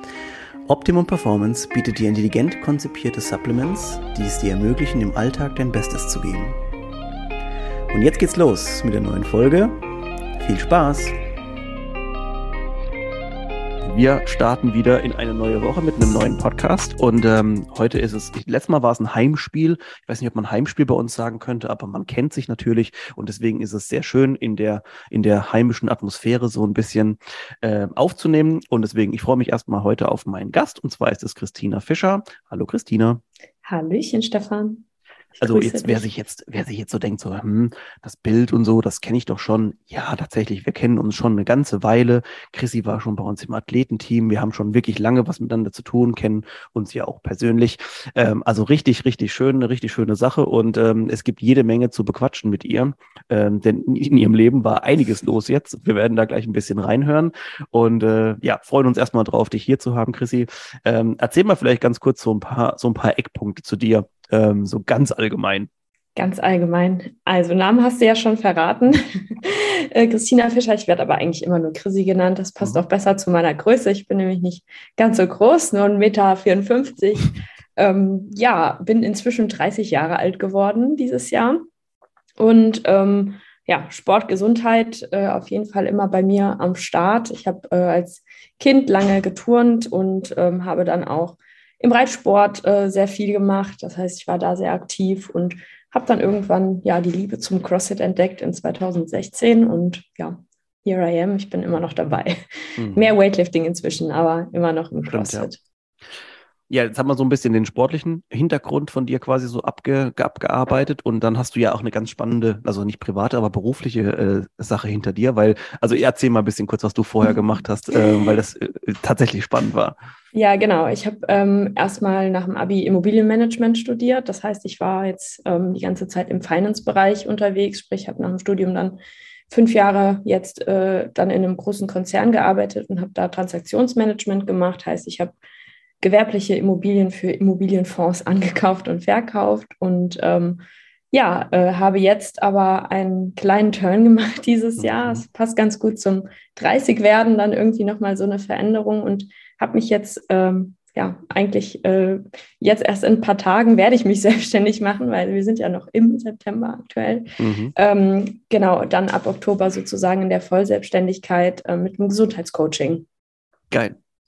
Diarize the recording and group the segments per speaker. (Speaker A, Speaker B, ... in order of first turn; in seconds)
Speaker A: 0.7-6.5, 7.9-9.7, 10.4-11.2, 13.8-33.2, 35.4-65.7, 102.8-103.0, 105.1-105.5, 106.7-120.0, 144.8-145.2, 157.4-157.7, 163.7-163.9
Speaker B: 33.6-36.1, 66.2-81.6, 82.4-102.4, 102.9-105.6, 120.3-129.0, 129.5-135.3, 136.0-163.1